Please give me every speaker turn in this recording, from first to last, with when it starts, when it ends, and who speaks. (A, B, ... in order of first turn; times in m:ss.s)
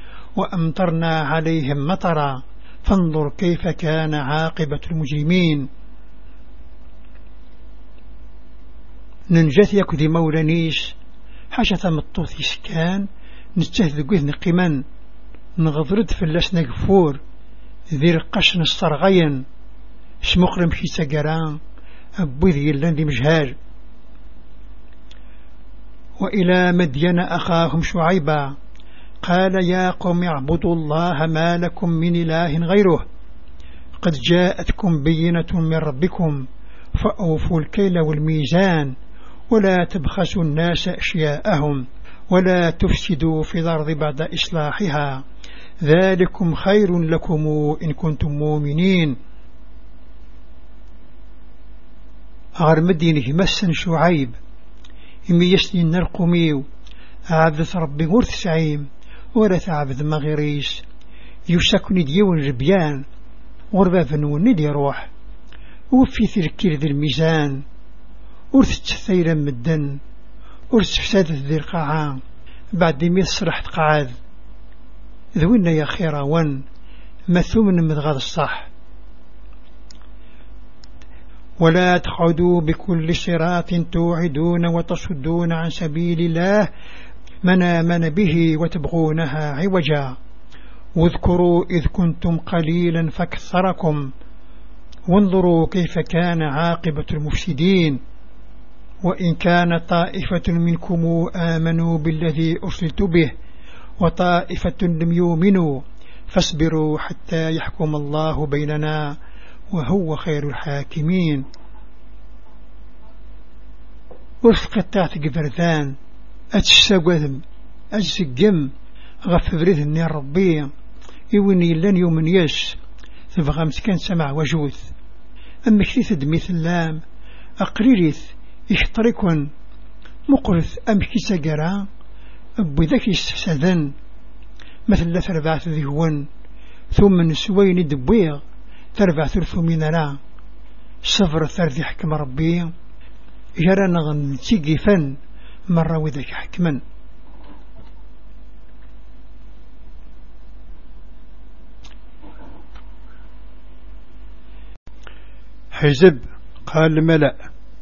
0:00.4-0:05.7 A
0:09.3-0:11.0 A
0:11.5-0:14.8 A
0:15.6-0:17.2 A
0:17.9-0:19.4 A
0:20.2-0:21.6 A
0:22.2-0:23.5 A
0:26.2-0:28.5 A
0:29.2-0:33.0 A
0:34.0-0:38.9 A
0:39.5-0:45.2 A
0:45.8-0:49.2 A
0:52.6-0:54.4 A
0:55.3-0:56.6 A
0:57.3-1:00.8 A
1:01.5-1:03.0 A
1:03.7-1:05.1 A
1:05.9-1:07.6 A
1:08.5-1:10.0 A
1:10.7-1:12.2 A
1:12.7-1:14.2 A
1:15.4-1:16.6 A
1:17.3-1:18.7 A
1:21.6-1:26.7 A
1:27.4-1:30.2 A
1:31.0-1:34.1 A
1:35.1-1:38.0 A
1:39.0-1:43.3 A
1:44.0-1:49.2 A
1:49.7-1:51.4 A
1:54.4-1:56.0 A
1:56.5-1:57.4 A
1:57.9-1:58.7 A
1:59.2-2:00.7 A
2:01.3-2:02.8 A
2:03.3-2:04.9 A
2:05.6-2:07.0 A
2:07.6-2:09.5 A
2:10.3-2:11.9 A
2:12.6-2:13.9 A
2:14.9-2:16.3 A
2:16.9-2:18.4 A
2:19.0-2:20.2 A
2:21.0-2:22.7 A
2:23.6-2:25.2 A
2:25.7-2:26.8 A
2:35.7-2:37.3 A